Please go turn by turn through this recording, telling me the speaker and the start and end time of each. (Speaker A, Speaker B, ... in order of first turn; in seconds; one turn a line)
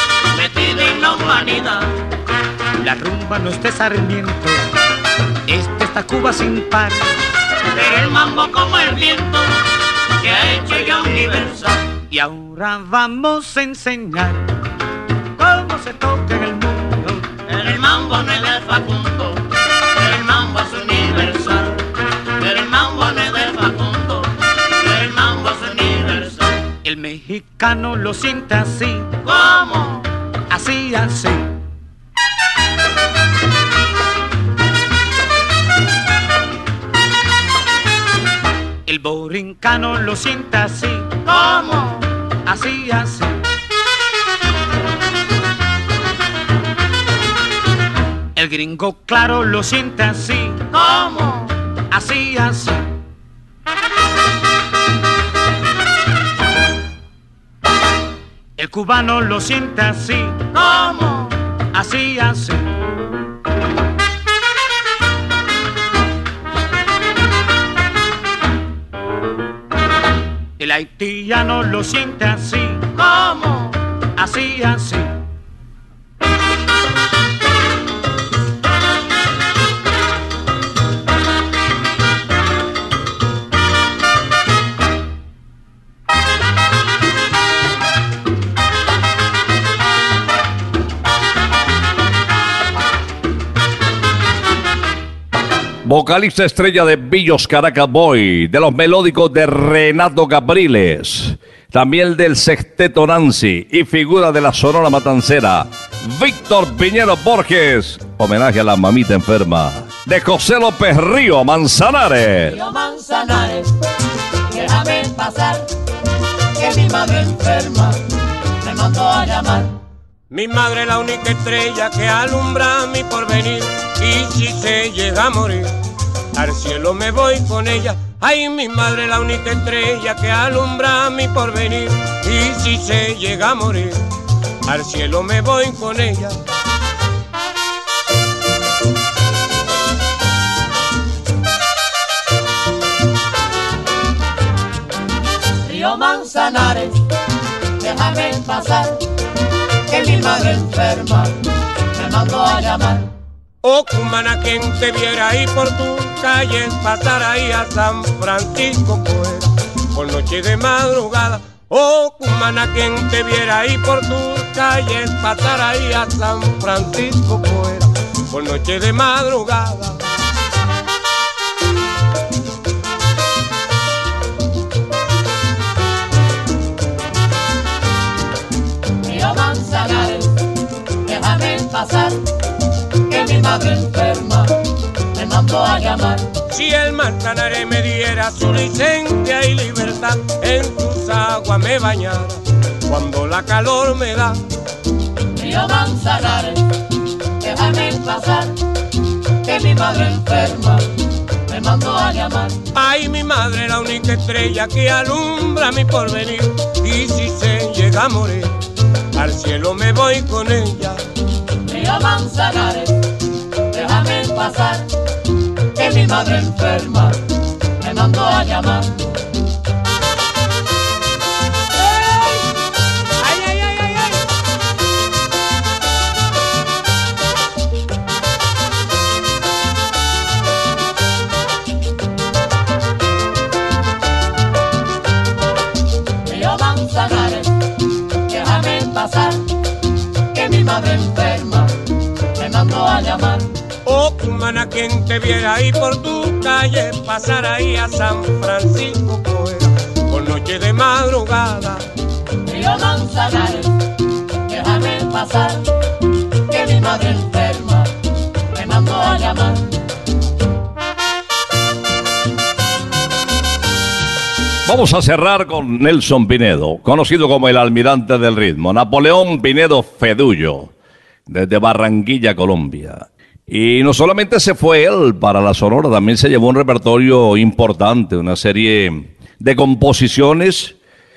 Speaker A: 0.3-1.9
Speaker B: 2.8-4.6
Speaker B: 5.5-7.0
Speaker A: 7.8-9.5
Speaker A: 10.2-11.7
Speaker B: 12.1-14.4
Speaker B: 15.4-17.3
Speaker A: 17.5-19.4
Speaker A: 20.0-21.8
Speaker A: 22.4-24.3
Speaker A: 24.8-26.4
Speaker B: 26.8-29.1
Speaker A: 29.3-30.0
Speaker B: 30.5-31.5
Speaker B: 38.9-41.1
Speaker C: 41.3-42.0
Speaker B: 42.5-43.4
Speaker B: 48.4-50.6
Speaker C: 50.8-51.5
Speaker B: 51.9-52.8
Speaker B: 58.6-60.4
Speaker C: 60.6-61.3
Speaker B: 61.7-62.7
Speaker B: 70.6-72.9
Speaker C: 73.0-73.7
Speaker B: 74.2-75.1
Speaker D: 95.8-112.6
Speaker C: 112.5-113.7
Speaker C: 114.5-115.7
Speaker C: 116.5-118.0
Speaker C: 118.6-119.7
Speaker E: 120.3-125.7
Speaker E: 126.3-134.0
Speaker E: 134.7-136.4
Speaker C: 145.6-147.0
Speaker C: 147.8-149.0
Speaker C: 149.9-151.3
Speaker C: 151.9-153.1
Speaker E: 153.6-170.0
Speaker C: 179.0-180.3
Speaker C: 181.1-182.2
Speaker C: 183.1-184.5
Speaker C: 185.1-186.3
Speaker E: 186.5-194.4
Speaker C: 195.4-196.6
Speaker C: 197.4-198.6
Speaker C: 199.4-200.9
Speaker C: 201.5-202.6
Speaker E: 202.8-208.5
Speaker E: 209.2-211.0
Speaker C: 211.7-213.0
Speaker C: 213.7-214.9
Speaker C: 215.8-217.2
Speaker C: 217.8-219.0
Speaker C: 236.2-237.5
Speaker C: 238.3-239.4
Speaker C: 240.3-241.7
Speaker C: 242.4-243.5
Speaker E: 243.9-251.8
Speaker C: 252.4-253.7
Speaker C: 254.5-255.6
Speaker C: 256.5-257.9
Speaker C: 258.5-259.6
Speaker D: 264.6-270.7
Speaker D: 271.3-280.8